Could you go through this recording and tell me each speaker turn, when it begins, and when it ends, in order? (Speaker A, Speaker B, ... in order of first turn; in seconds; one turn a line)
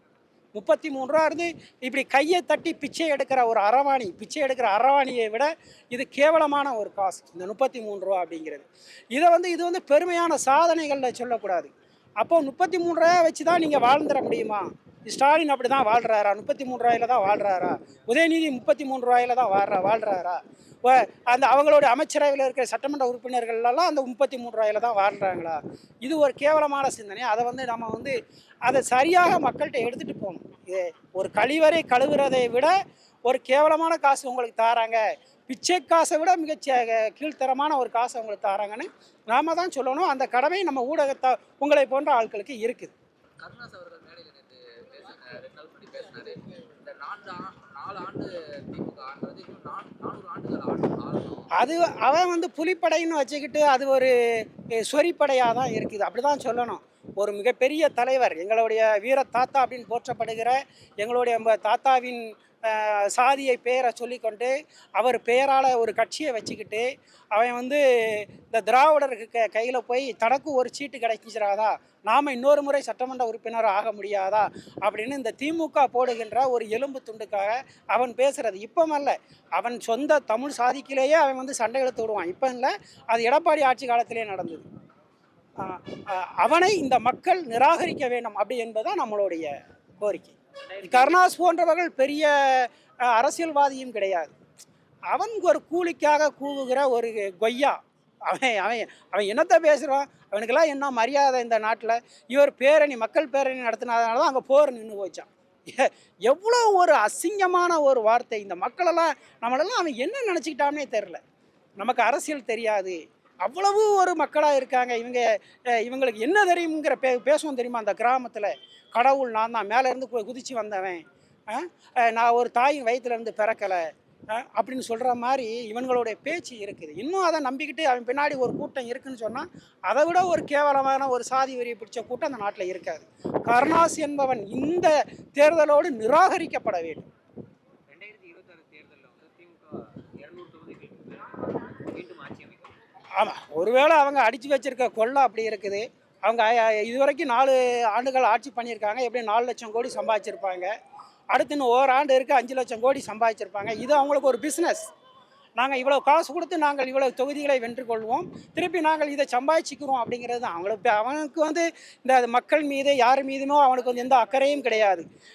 Speaker A: 0.5-32.7
Speaker A: 33.3-42.9
Speaker B: 43.4-51.5
Speaker A: 51.5-84.7
Speaker A: 85.6-94.3
Speaker C: 90.8-91.2
Speaker A: 95.1-111.2
Speaker A: 111.8-137.1
Speaker C: 137.9-142.8
Speaker A: 143.2-150.7
Speaker A: 151.3-154.8
Speaker A: 155.6-165.0